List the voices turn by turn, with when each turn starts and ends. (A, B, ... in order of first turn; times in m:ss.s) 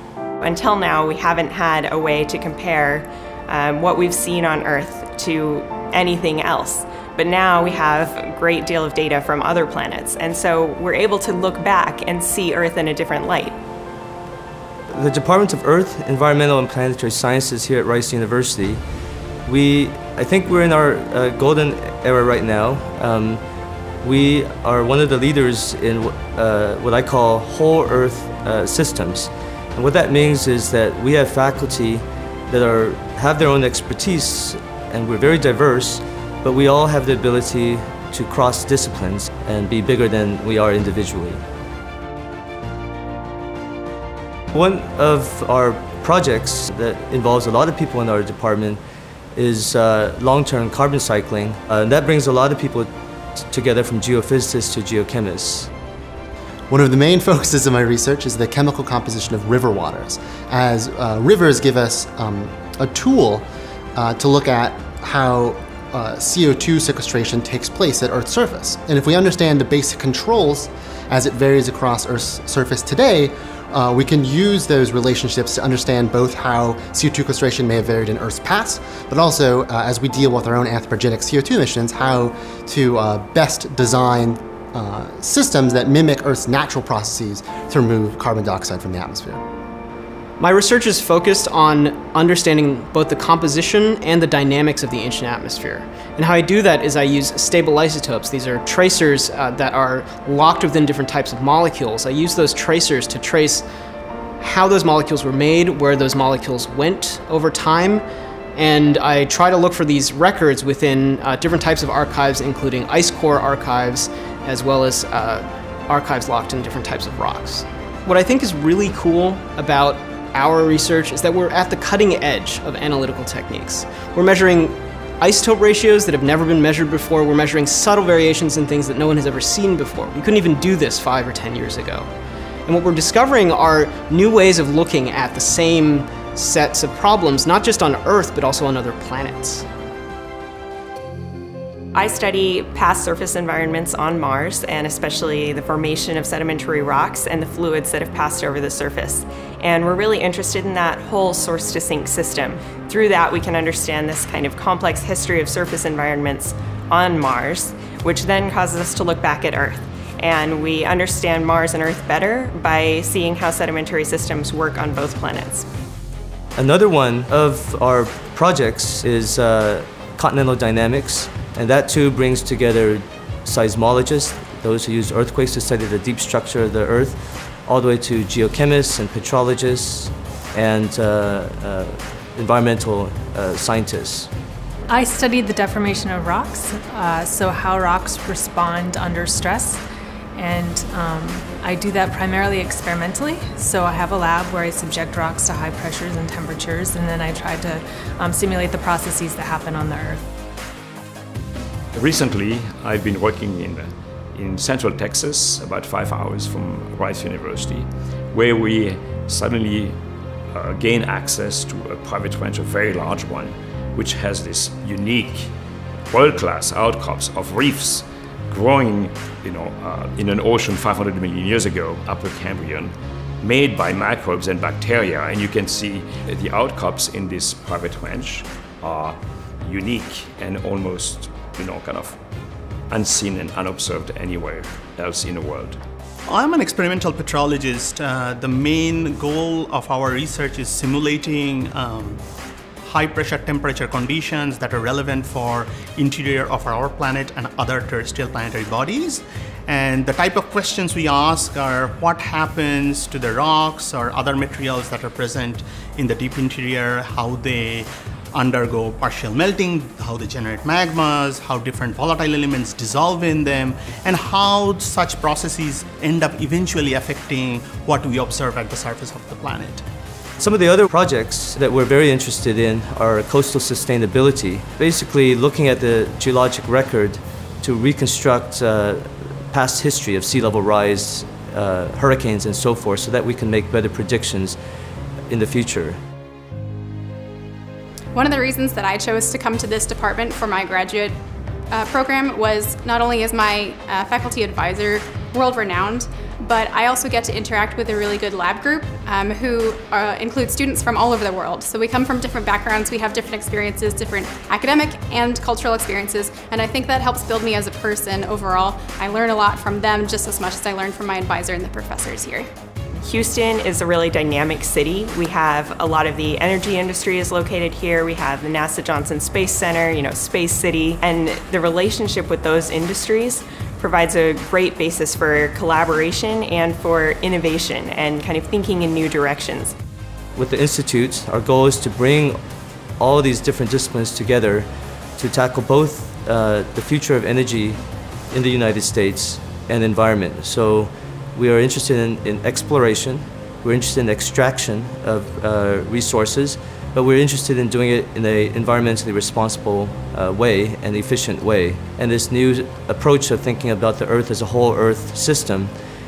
0:00.4-0:13.6 A
0:14.9-0:18.8 B
0:19.4-0:23.4 B
0:24.0-0:41.4 B
0:44.5-0:48.8 B
0:49.4-0:55.7 B
0:56.7-1:29.4 C
1:30.4-1:43.6 D
1:44.4-1:48.0 D
1:48.6-2:12.1 D
2:12.6-2:19.6 D
2:21.9-2:45.6 A
2:46.6-3:04.3 B
3:04.9-3:09.8 E
3:10.3-3:20.2 E
3:21.9-3:30.0 F
3:30.5-3:35.5 F
3:36.1-3:52.2 F
3:52.9-3:55.8 F
3:56.3-4:02.2 G
4:02.8-4:29.8 G
4:30.4-4:44.6 B
4:45.3-4:46.0 B
4:48.1-4:51.1 H
4:51.7-5:12.5 H
5:13.0-5:29.7 A
5:30.4-5:32.4 B
5:33.0-5:34.7 B
5:35.2-5:37.8 B
5:38.3-5:55.7 B